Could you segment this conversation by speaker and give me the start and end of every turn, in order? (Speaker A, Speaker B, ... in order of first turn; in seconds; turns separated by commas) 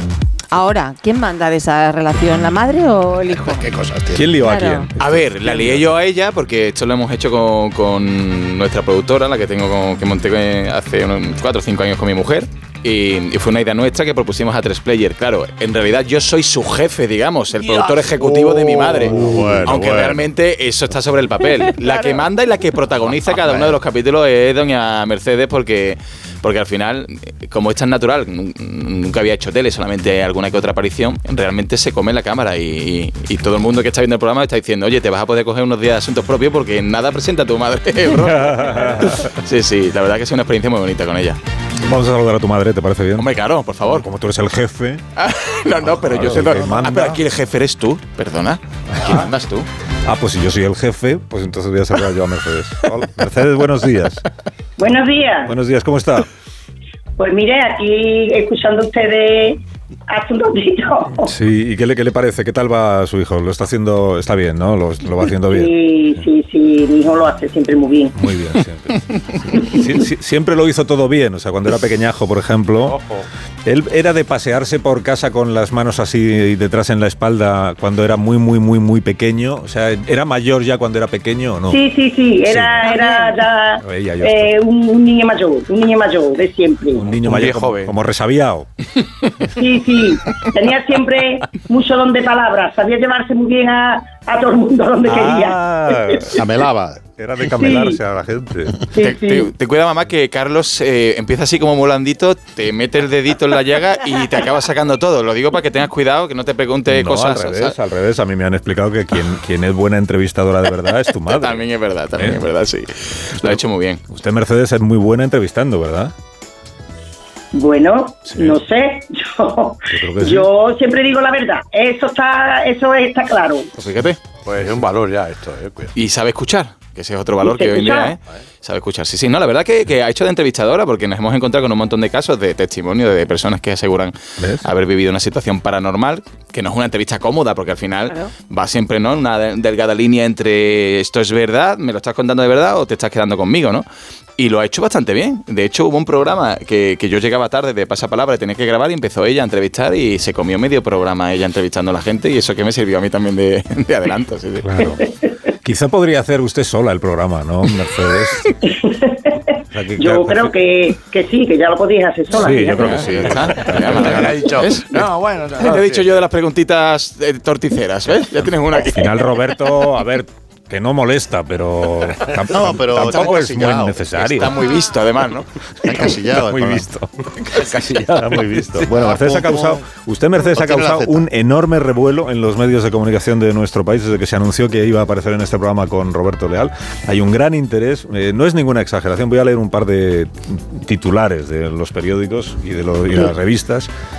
Speaker A: 0.5-3.6, Speaker B: 3.3-4.3, Speaker C: 4.1-5.9, Speaker A: 4.4-4.9, Speaker D: 5.0-41.4, Speaker B: 18.1-20.2, Speaker C: 19.1-19.4, Speaker B: 23.4-23.7, Speaker C: 38.1-39.3, Speaker C: 41.8-43.3, Speaker D: 43.2-44.0, Speaker C: 43.8-45.0, Speaker D: 45.1-49.7, Speaker C: 45.9-47.2, Speaker C: 48.9-49.2, Speaker C: 50.1-54.2, Speaker E: 54.8-55.5, Speaker C: 55.5-56.3, Speaker E: 57.2-61.3, Speaker C: 61.2-65.7, Speaker E: 65.5-68.1, Speaker C: 68.1-73.0, Speaker F: 72.9-73.2, Speaker C: 73.6-81.8, Speaker E: 81.7-87.1, Speaker C: 82.5-83.0, Speaker A: 82.8-83.3, Speaker C: 83.8-84.6, Speaker C: 86.9-88.7, Speaker F: 87.2-87.9, Speaker E: 89.5-96.4, Speaker C: 95.0-96.5, Speaker B: 96.3-97.0, Speaker C: 97.2-98.8, Speaker E: 97.4-98.0, Speaker E: 98.9-99.5, Speaker D: 99.0-107.8, Speaker C: 106.9-112.5, Speaker D: 111.3-114.0, Speaker C: 113.4-116.1, Speaker E: 117.5-123.7, Speaker C: 118.3-118.6, Speaker C: 119.9-120.5, Speaker D: 123.8-124.2, Speaker F: 124.5-125.9, Speaker D: 126.0-143.9, Speaker E: 127.4-128.1, Speaker C: 134.4-134.7, Speaker D: 144.4-154.9, Speaker C: 154.6-155.1, Speaker C: 155.6-158.6, Speaker E: 158.7-159.4, Speaker C: 159.7-160.5, Speaker E: 160.0-163.4, Speaker C: 162.3-164.3, Speaker D: 162.6-169.1, Speaker F: 163.8-166.1, Speaker C: 168.8-174.6, Speaker B: 172.5-174.1, Speaker D: 173.0-173.5, Speaker D: 174.2-176.1, Speaker B: 175.8-176.9, Speaker C: 175.8-193.9, Speaker F: 177.5-178.9, Speaker B: 178.8-179.8, Speaker B: 180.5-181.2